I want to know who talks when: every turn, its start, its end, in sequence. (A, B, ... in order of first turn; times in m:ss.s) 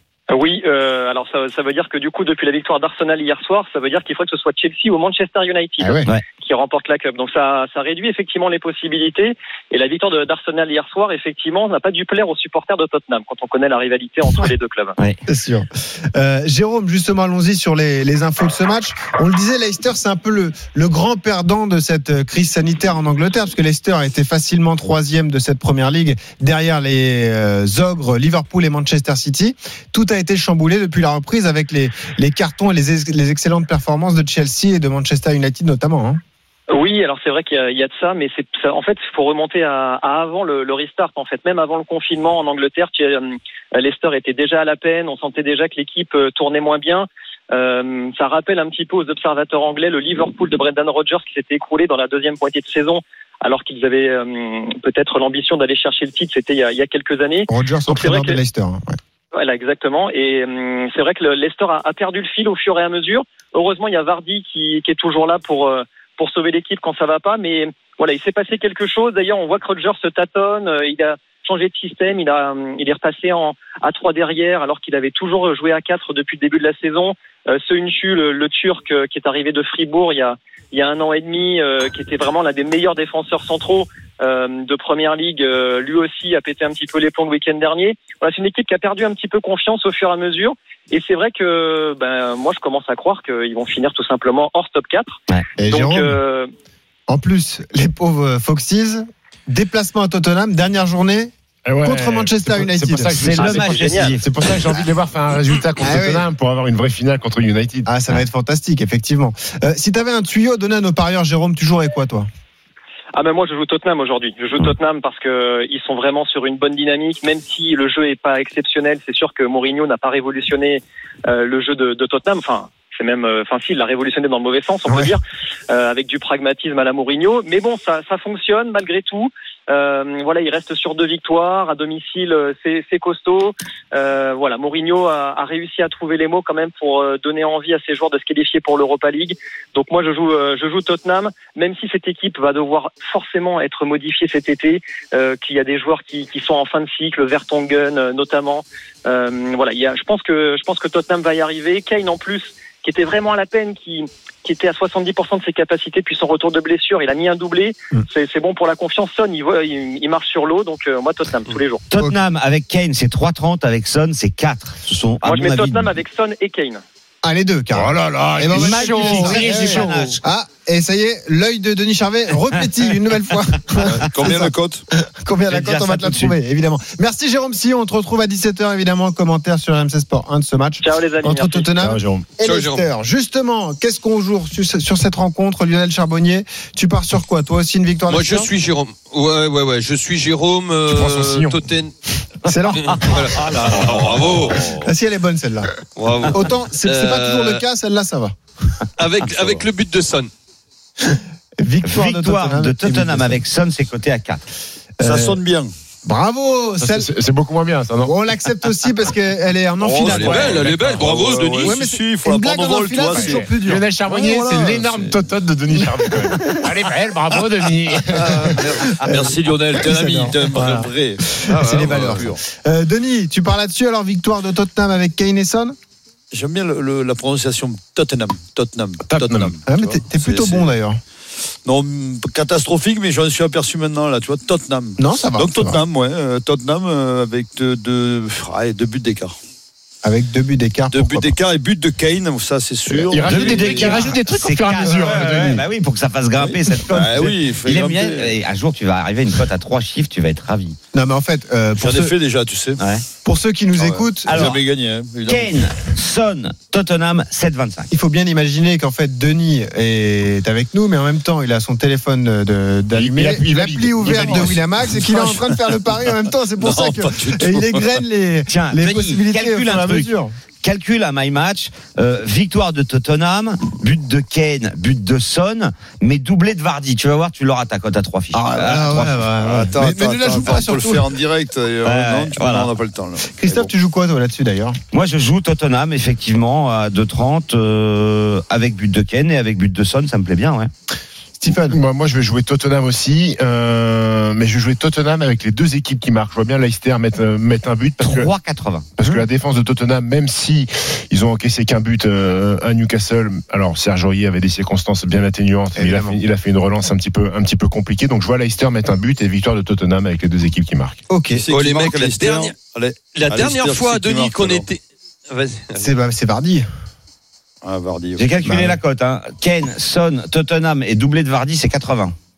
0:00.3-0:15.0 A
0:05.8-0:06.1 B
0:15.3-0:36.2 B
0:36.7-0:58.4 A
0:57.5-0:59.0 B
0:59.3-1:36.5 A
1:35.6-1:36.2 B
1:37.1-1:41.3 B
1:41.6-1:47.9 C
1:41.8-1:43.8 B
1:43.2-1:44.8 D
1:43.6-1:44.2 A
1:45.8-1:46.3 B
1:47.9-1:52.3 B
1:53.2-2:41.8 A
2:04.9-2:05.1 B
2:41.9-2:46.0 D
2:45.2-2:46.8 A
2:47.2-3:08.5 B
2:47.7-2:50.1 C
2:48.5-2:50.2 D
2:53.8-2:54.8 E
2:55.5-2:56.4 D
3:00.8-3:01.7 A
3:01.8-3:02.3 C
3:02.4-3:02.9 F
3:08.1-3:11.9 F
3:10.9-3:11.6 C
3:12.5-3:13.9 B
3:12.7-3:13.2 D
3:12.8-3:14.9 F
3:14.5-3:15.7 B
3:16.0-3:17.6 F
3:16.3-3:18.4 B
3:19.0-3:20.3 F
3:21.0-3:23.4 B
3:21.8-3:24.4 D
3:25.0-3:25.4 B
3:25.0-3:25.7 E
3:26.0-3:27.1 B
3:26.8-3:28.2 C
3:28.0-3:30.7 B
3:29.8-3:33.6 E
3:30.0-3:31.8 F
3:30.7-3:31.0 C
3:31.6-3:33.8 B
3:33.0-3:38.6 C
3:34.1-3:35.2 E
3:35.8-3:36.6 B
3:38.1-3:42.4 E
3:38.3-3:45.8 B
3:41.6-3:42.2 F
3:46.3-3:50.7 E
3:49.1-3:49.5 C
3:49.7-3:51.0 B
3:51.6-3:59.4 E
3:55.0-3:55.8 B
4:00.0-4:01.4 B
4:00.9-4:04.1 E
4:03.1-4:05.6 C
4:03.2-4:10.8 D
4:06.4-4:08.4 E
4:10.9-4:12.1 B
4:11.8-4:12.8 E
4:12.8-4:13.1 D
4:13.2-4:14.6 B
4:13.8-4:15.6 E
4:14.3-4:14.6 D
4:15.3-4:17.9 D
4:17.9-4:30.3 B
4:22.9-4:24.6 C
4:24.2-4:24.5 E
4:25.1-4:25.3 E
4:26.6-4:27.9 E
4:28.5-4:30.1 D
4:30.6-4:39.3 D
4:38.3-4:41.1 B
4:39.4-4:43.7 E
4:41.8-4:42.7 D
4:43.3-4:44.8 B
4:44.9-4:50.7 D
4:51.4-4:51.8 B
4:51.6-4:58.3 C
4:58.0-4:58.9 D
4:59.0-5:11.0 C
5:05.8-5:06.2 B
5:11.1-5:11.4 B
5:11.3-5:14.7 E
5:11.5-5:12.6 F
5:13.2-5:15.8 F
5:15.8-5:16.7 B
5:17.6-5:18.7 E
5:18.2-5:22.2 D